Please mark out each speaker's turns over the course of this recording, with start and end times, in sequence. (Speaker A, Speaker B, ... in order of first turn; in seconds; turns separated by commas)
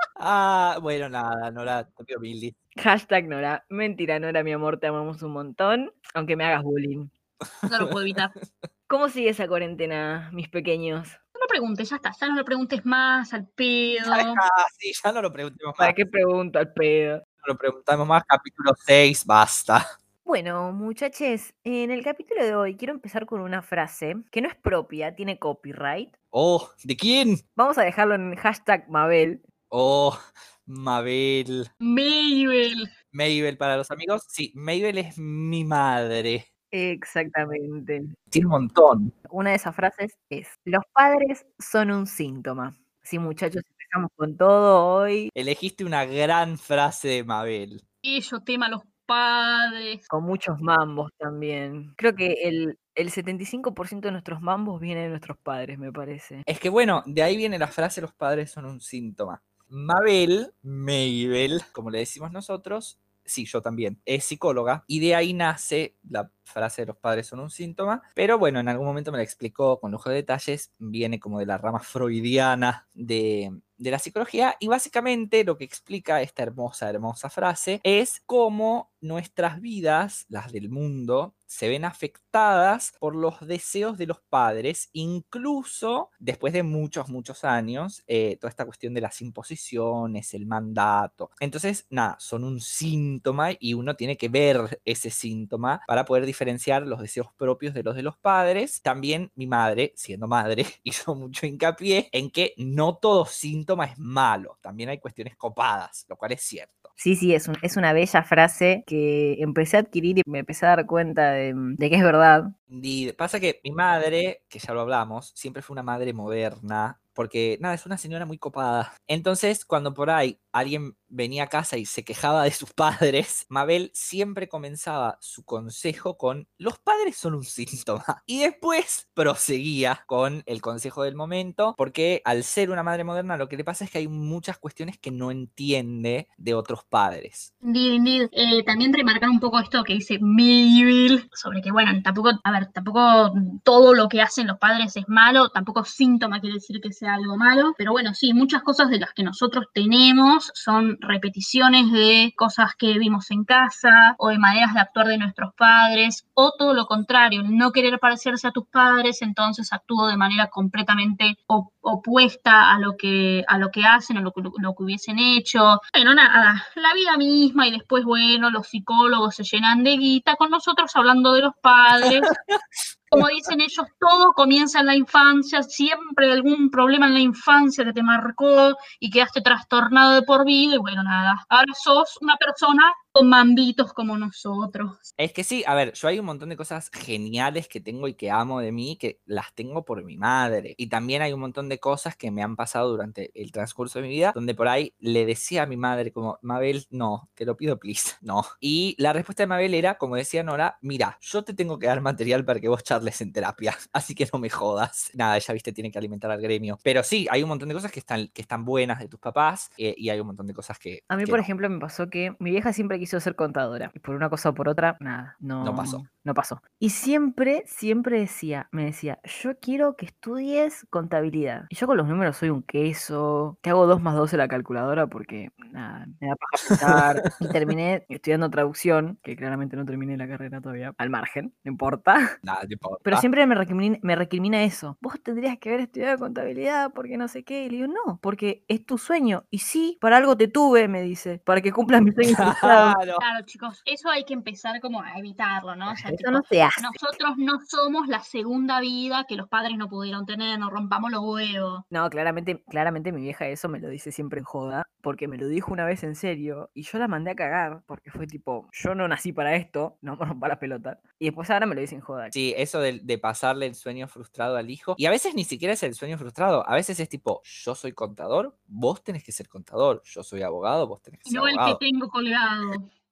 Speaker A: 0.2-2.5, Speaker B: 2.8-7.1, Speaker A: 7.6-8.1, Speaker C: 7.7-8.3, Speaker B: 8.9-11.2, Speaker C: 11.3-14.4, Speaker A: 14.1-16.0, Speaker B: 15.8-17.2, Speaker A: 17.4-19.8, Speaker B: 20.2-26.1, Speaker A: 26.3-27.4, Speaker B: 27.6-29.4, Speaker A: 29.7-31.7, Speaker C: 31.8-32.9, Speaker A: 33.1-36.5, Speaker B: 36.7-38.1, Speaker A: 38.3-39.1, Speaker B: 39.3-45.3, Speaker A: 45.3-47.8, Speaker C: 48.0-50.0, Speaker B: 50.1-56.5, Speaker A: 56.5-106.9, Speaker B: 107.0-112.5, Speaker A: 112.7-137.5, Speaker C: 137.6-172.3, Speaker A: 172.0-172.6, Speaker C: 173.1-185.1, Speaker A: 185.2-211.4, Speaker B: 211.1-232.4, Speaker A: 215.6-216.0, Speaker A: 232.4-233.2, Speaker B: 233.0-243.0, Speaker A: 242.2-243.2, Speaker C: 243.2-251.8, Speaker B: 245.9-247.2, Speaker B: 251.9-262.3, Speaker A: 262.3-271.8, Speaker C: 271.3-272.9